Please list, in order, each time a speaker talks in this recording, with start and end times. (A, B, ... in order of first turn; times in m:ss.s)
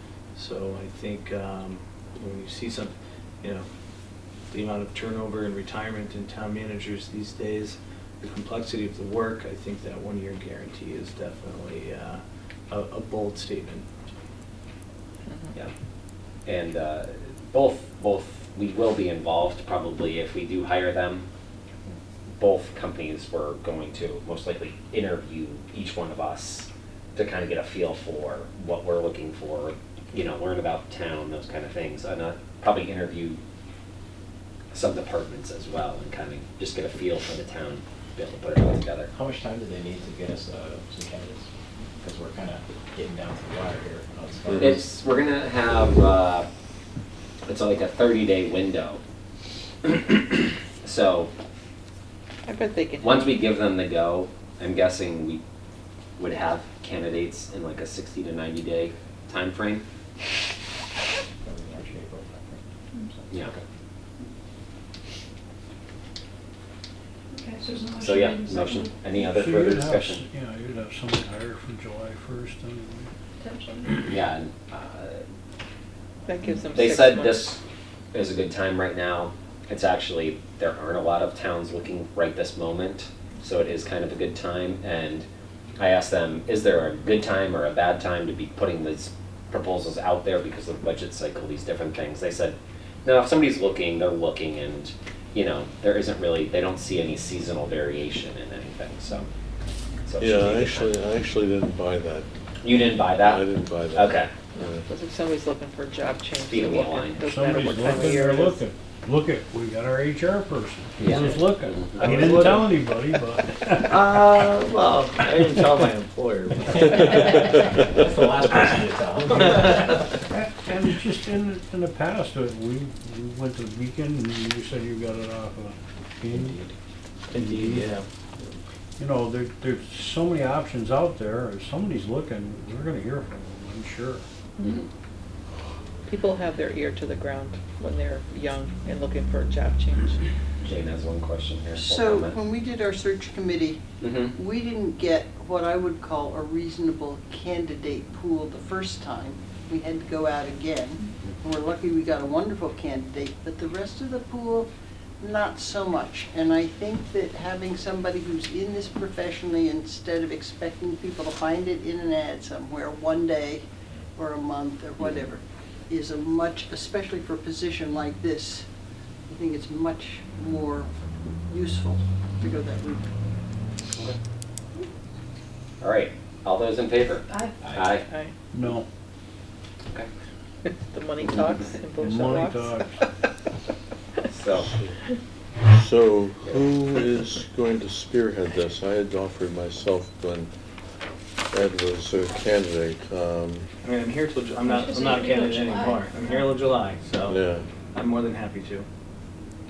0:00.4-0:03.7 A
0:04.5-0:13.8 A
0:16.4-0:21.2 B
0:22.3-0:33.4 B
0:34.7-0:39.1 B
0:39.1-0:41.5 C
0:42.0-0:44.9 C
0:44.6-0:46.4 B
0:47.5-0:49.0 B
0:50.8-0:51.3 B
0:52.4-0:53.4 D
0:53.0-0:55.4 B
0:56.2-0:59.8 B
1:01.4-1:02.6 C
1:03.1-1:03.6 C
1:07.3-1:08.8 E
1:08.0-1:10.2 B
1:09.2-1:13.1 F
1:13.4-1:13.9 E
1:14.0-1:15.2 B
1:16.3-1:17.4 D
1:16.7-1:17.6 B
1:18.1-1:25.2 B
1:25.8-1:39.3 B
1:40.0-1:41.0 B
1:40.2-1:42.3 G
1:42.6-1:44.3 B
1:43.2-1:44.8 G
1:44.9-1:48.6 D
1:46.5-1:47.2 B
1:47.2-1:54.2 F
1:51.0-1:52.3 B
1:52.0-1:52.8 A
1:53.8-1:57.2 A
1:56.7-2:00.1 C
2:00.1-2:06.6 F
2:06.3-2:06.7 C
2:07.3-2:08.6 A
2:07.3-2:07.9 F
2:09.0-2:14.2 F
2:16.1-2:20.2 D
2:20.6-2:22.4 B
2:21.7-2:23.8 H
2:24.0-2:24.4 B
2:24.3-2:34.7 H
2:35.2-2:43.6 H
2:44.2-2:48.7 H
2:49.3-2:50.9 H
2:51.4-2:53.0 H
2:55.8-2:58.0 B
2:57.6-2:57.9 C
2:58.0-2:58.3 D
2:58.5-2:58.8 F
3:00.6-3:02.8 D
3:02.0-3:03.0 F
3:04.3-3:04.7 B
3:04.6-3:04.9 G
3:05.7-3:10.5 G
3:11.5-3:13.7 G
3:13.8-3:17.4 A
3:14.8-3:15.9 E
3:17.3-3:17.6 G
3:17.9-3:18.9 A